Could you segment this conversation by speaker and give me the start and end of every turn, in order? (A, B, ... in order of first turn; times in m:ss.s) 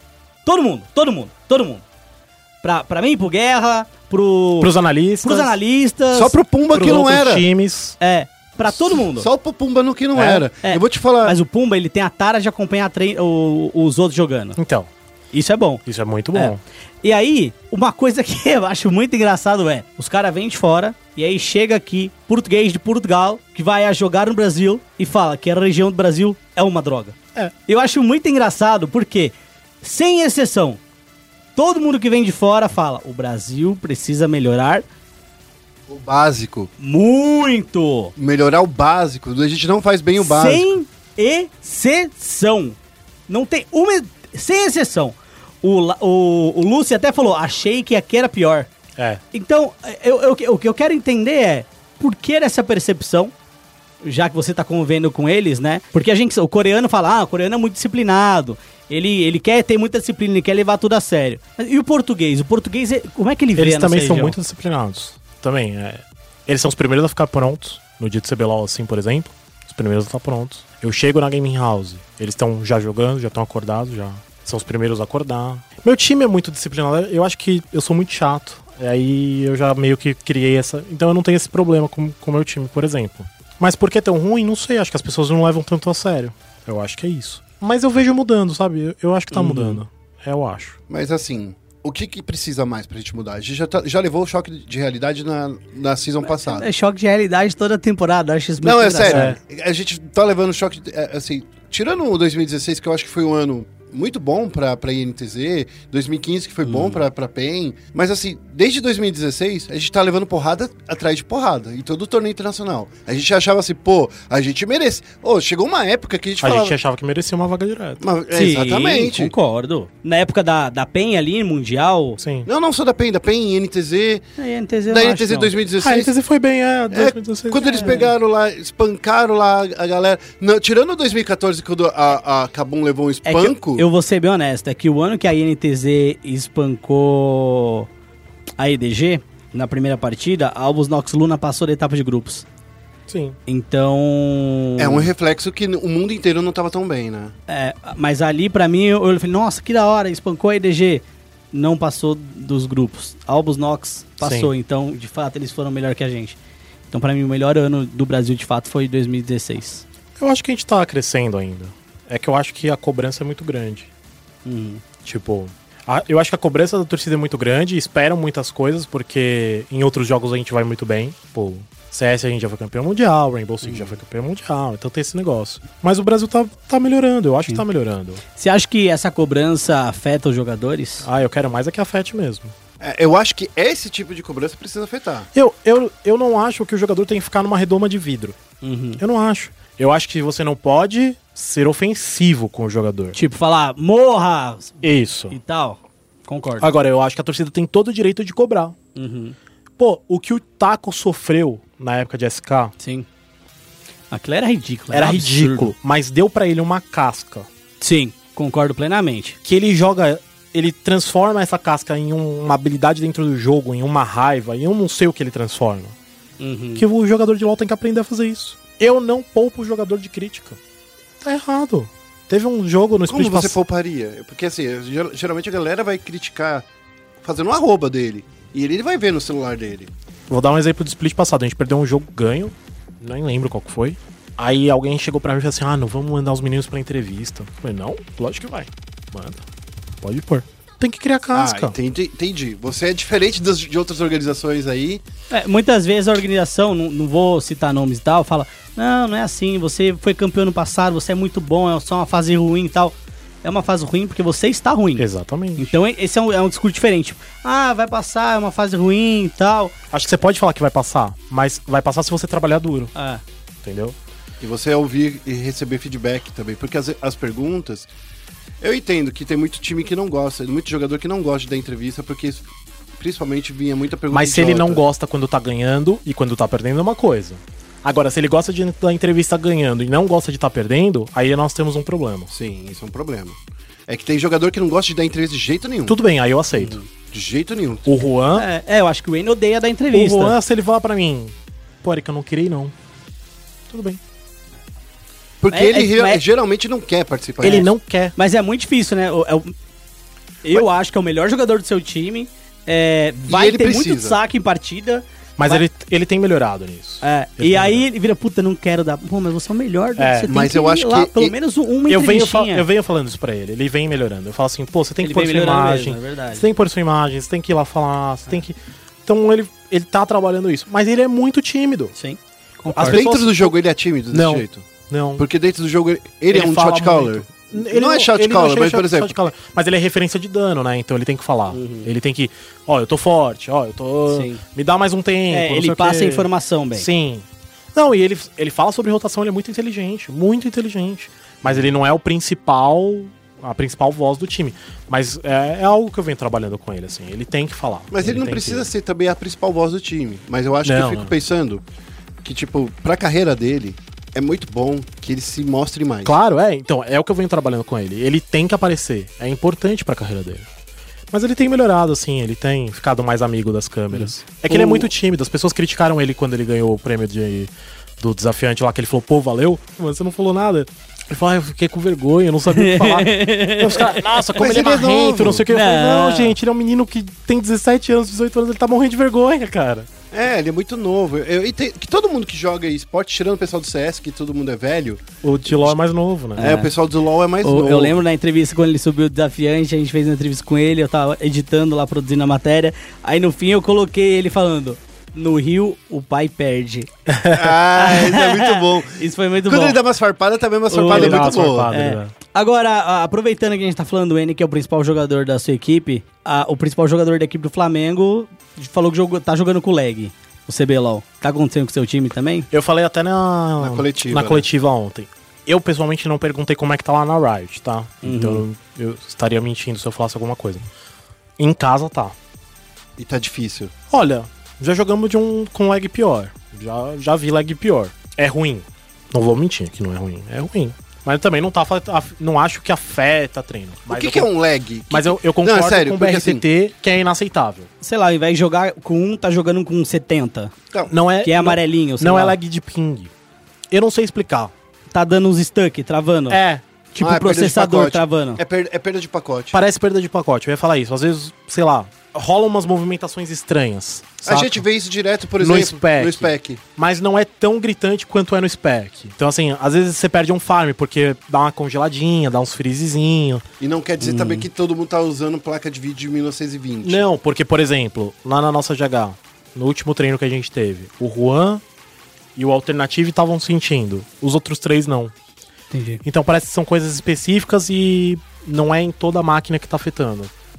0:00.5-0:01.8 A
0:02.6-0:04.7 A
0:04.6-0:05.5 B
0:05.2-0:07.0 A
0:06.1-0:07.4 C
0:06.7-0:08.0 B
0:08.0-0:09.3 A
0:08.7-0:11.4 C
0:10.2-0:10.4 B
0:10.6-0:14.6 A
0:14.6-0:14.9 B
0:15.3-0:15.8 A
0:15.9-0:16.6 B
0:16.4-0:30.8 A
0:31.6-0:34.9 A
0:35.9-0:36.7 C
0:36.8-0:38.1 A
0:38.2-0:40.7 C
0:40.2-0:42.8 A
0:43.3-0:48.7 A
0:49.0-0:49.2 B
0:49.3-0:53.3 A
0:54.0-1:04.4 A
1:03.6-1:30.8 B
1:29.3-1:29.8 A
1:30.9-1:36.7 C
1:36.3-1:39.3 A
1:38.6-1:56.8 C
1:39.1-1:39.4 B
1:46.6-1:47.0 A
1:56.4-1:58.0 B
1:58.0-1:59.3 C
1:58.3-2:02.2 A
2:02.2-2:02.5 B
2:02.5-2:04.2 C
2:04.4-2:05.6 A
2:04.9-2:06.2 C
2:05.8-2:07.7 B
2:06.9-2:13.9 C
2:07.6-2:08.1 A
2:13.2-2:17.9 A
2:18.6-2:22.4 A
2:23.1-2:23.4 B
2:23.5-2:25.1 A
2:24.8-2:27.3 C
2:27.5-2:36.4 A
2:34.2-2:34.5 B
2:36.9-2:39.8 A
2:40.2-2:43.9 B
2:44.4-2:44.8 A
2:45.0-2:58.2 B
2:53.6-2:53.9 A
2:58.3-3:01.1 A
3:01.0-3:02.6 B
3:02.8-3:05.3 C
3:05.4-3:08.4 B
3:08.6-3:09.0 A
3:09.0-3:13.2 B
3:13.2-3:16.7 A
3:14.8-3:15.4 B
3:16.6-3:18.8 B
3:19.0-3:19.4 A
3:19.8-3:22.7 B
3:22.8-3:23.1 A
3:24.1-3:25.7 A
3:24.9-3:27.5 B
3:27.8-3:29.4 A
3:29.4-3:36.0 B
3:36.4-3:36.8 A
3:36.8-3:40.6 B
3:41.2-3:43.6 B
3:43.1-3:46.7 C
3:47.2-3:49.9 C
3:50.3-3:59.4 B
4:00.0-4:01.7 B
4:01.3-4:05.0 C
4:05.3-4:15.0 A
4:15.0-4:15.7 B
4:15.6-4:19.7 A
4:19.9-4:22.9 B
4:23.0-4:23.2 A
4:23.6-4:24.0 B
4:24.4-4:27.9 C
4:28.6-4:34.8 C
4:34.1-4:42.3 B
4:42.3-4:46.0 C
4:45.9-4:46.8 B
4:46.6-4:46.9 A
4:47.1-4:47.9 C
4:47.9-4:48.5 B
4:48.3-4:50.4 A
4:49.9-4:52.7 B
4:53.7-4:54.0 B
4:55.4-4:57.7 C
4:55.5-4:56.2 A
4:57.4-4:59.5 A
4:57.4-4:58.2 B
5:00.4-5:05.6 A
5:03.3-5:04.2 C
5:05.4-5:07.8 B
5:07.0-5:12.7 A
5:10.0-5:10.3 B
5:10.3-5:11.3 C
5:11.9-5:18.5 B
5:15.0-5:16.4 A
5:19.1-5:21.9 B
5:22.0-5:23.0 A
5:22.7-5:23.6 B
5:22.8-5:29.1 C
5:24.1-5:25.2 B
5:26.3-5:48.7 B
5:31.5-5:31.9 A
5:34.1-5:34.4 A
5:35.3-5:36.9 A
5:47.9-5:51.6 C
5:50.6-5:51.1 B
5:52.2-5:56.2 C
5:56.0-6:00.5 B
6:01.1-6:19.9 B
6:03.9-6:04.9 A
6:12.5-6:14.6 A
6:14.4-6:15.5 C
6:15.5-6:16.4 A
6:20.1-6:25.7 C
6:25.2-6:26.5 B
6:26.4-6:26.7 A
6:26.4-6:28.0 C
6:27.4-6:36.9 A
6:37.1-6:37.5 B
6:37.3-6:41.7 C
6:37.8-6:39.8 A
6:40.7-6:52.5 A
6:40.8-6:42.1 B
6:52.5-7:00.6 B
6:53.6-6:54.5 C
6:58.0-6:58.4 A
7:01.4-7:02.2 B
7:03.0-7:03.7 C
7:03.9-7:14.3 B
7:13.9-7:16.4 C
7:14.9-7:17.7 B
7:17.8-7:20.5 A
7:20.9-7:23.1 B
7:21.2-7:22.4 A
7:23.7-7:24.5 B
7:24.9-7:26.4 A
7:26.3-7:26.6 B
7:26.9-7:28.4 A
7:27.0-7:29.6 C
7:29.5-7:34.6 B
7:34.2-7:36.6 C
7:35.4-7:43.4 B
7:43.6-7:47.0 C
7:44.0-7:44.5 A
7:46.8-7:51.6 B
7:52.4-7:55.1 B
7:55.7-7:56.0 A
7:56.0-8:00.3 B